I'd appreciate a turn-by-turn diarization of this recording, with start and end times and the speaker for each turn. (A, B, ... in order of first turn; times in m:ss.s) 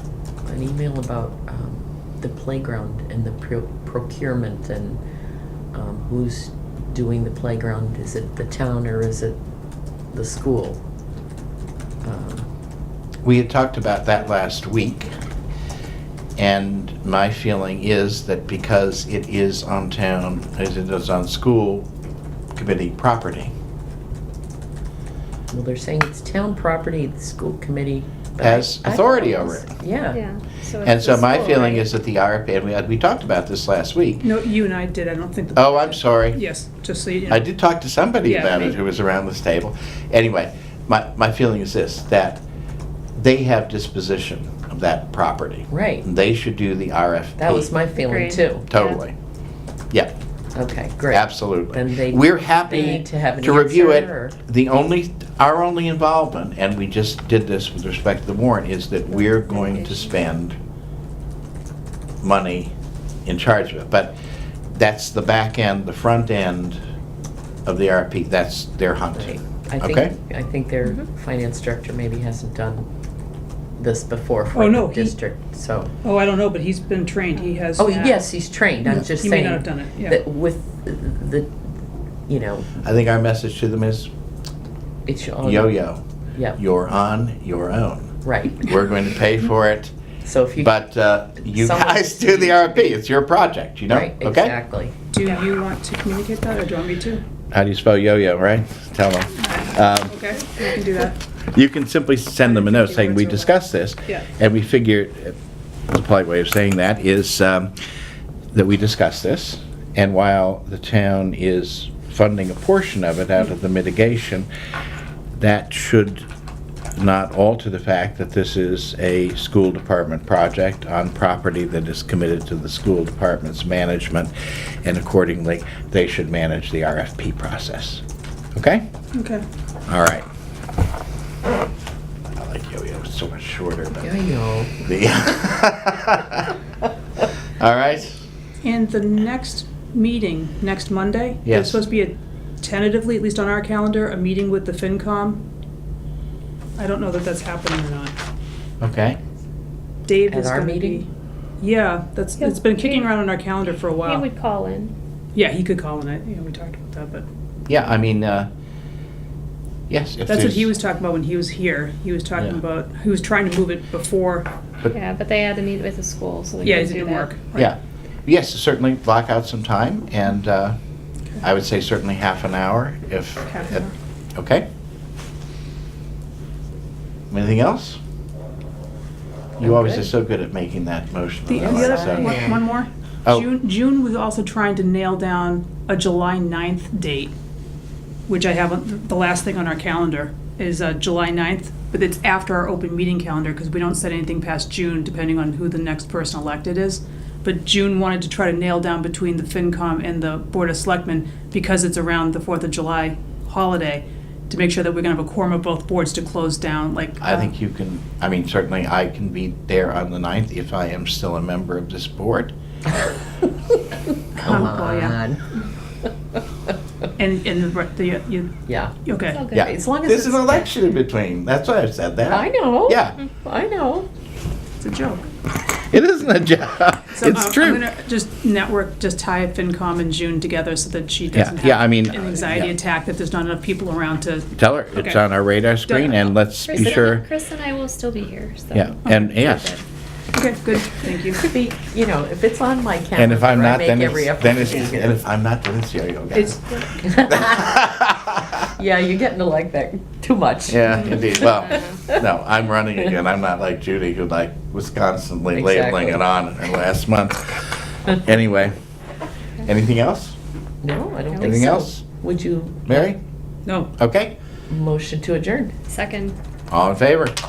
0:00.4-0:05.0 A
0:05.7-0:09.4 A
0:10.1-0:10.8 A
0:12.0-0:12.5 A
0:13.2-0:15.1 B
0:16.4-0:21.9 B
0:22.6-0:23.5 B
0:25.5-0:30.2 A
0:28.4-0:29.6 B
0:30.1-0:31.8 C
0:30.8-0:34.2 B
0:34.2-0:37.5 D
0:35.5-0:36.4 B
0:37.3-0:42.4 B
0:38.2-0:38.7 D
0:43.1-0:47.7 B
0:45.7-0:46.0 A
0:47.4-0:48.7 A
0:48.0-0:49.0 C
0:48.7-0:49.1 B
0:50.5-0:54.4 A
0:51.1-1:00.6 B
0:59.1-1:00.0 C
1:02.2-1:02.7 B
1:03.2-1:04.2 B
1:04.7-1:06.8 B
1:07.6-1:10.1 B
1:09.2-1:12.9 A
1:13.8-1:15.9 A
1:14.5-1:15.2 D
1:16.0-1:18.2 D
1:17.8-1:21.7 A
1:19.2-1:20.2 D
1:22.3-1:22.7 A
1:22.8-1:24.1 B
1:25.0-1:25.8 A
1:25.4-1:26.0 B
1:26.6-1:29.9 B
1:28.2-1:28.7 A
1:30.2-1:30.8 A
1:30.6-1:34.5 B
1:31.4-1:33.0 A
1:33.9-1:35.0 A
1:35.1-1:37.2 D
1:37.5-1:40.2 B
1:39.4-1:41.2 D
1:41.5-1:45.4 B
1:42.4-1:44.2 D
1:45.9-1:47.7 B
1:48.5-1:54.5 B
1:55.4-1:56.3 B
1:57.0-2:04.3 B
2:04.8-2:08.0 B
2:08.5-2:08.8 B
2:09.1-2:09.4 D
2:09.9-2:10.2 B
2:12.3-2:14.1 B
2:14.0-2:14.8 A
2:14.8-2:16.5 B
2:17.6-2:18.2 B
2:18.6-2:25.4 D
2:21.4-2:21.8 B
2:26.8-2:28.1 D
2:28.8-2:29.2 B
2:30.0-2:31.1 D
2:30.3-2:31.0 A
2:31.6-2:34.2 D
2:32.4-2:33.1 C
2:34.0-2:34.9 C
2:35.3-2:37.2 D
2:37.7-2:38.5 B
2:39.9-2:40.7 B
2:40.2-2:44.5 D
2:44.9-2:47.3 C
2:46.6-2:47.7 D
2:47.5-2:50.8 B
2:51.4-2:54.7 B
2:53.5-2:53.9 D
2:57.3-2:58.0 B
2:59.6-3:02.4 B
2:59.6-3:00.0 A
3:01.4-3:07.3 D
3:01.6-3:02.5 A
3:08.3-3:27.5 D
3:27.2-3:32.5 B
3:34.4-3:35.6 A
3:34.4-3:35.2 D
3:37.2-3:38.5 D
3:38.7-3:38.9 A
3:39.0-3:39.4 D
3:39.2-3:39.7 C
3:39.5-3:40.7 A
3:39.5-3:43.2 B
3:42.3-3:44.1 A
3:44.8-3:45.2 D
3:45.9-3:47.9 B
3:47.1-3:55.2 D
3:51.3-3:52.7 B
3:54.6-3:57.2 B
3:55.9-3:56.2 D
3:56.7-3:59.8 C
3:56.8-3:57.0 A
3:58.7-3:59.7 B
4:00.3-4:01.4 D
4:01.4-4:05.2 A
4:03.2-4:06.6 B
4:06.3-4:06.6 D
4:07.0-4:07.7 A
4:07.2-4:08.6 B
4:08.7-4:12.2 A
4:10.7-4:18.7 B
4:11.2-4:12.1 C
4:15.5-4:16.2 A
4:19.6-4:20.4 B
4:20.8-4:23.1 A
4:21.3-4:21.7 C
4:21.4-4:22.0 B
4:22.9-4:23.2 B
4:24.0-4:24.3 B
4:24.7-4:25.8 A
4:25.9-4:26.3 C
4:26.7-4:27.3 B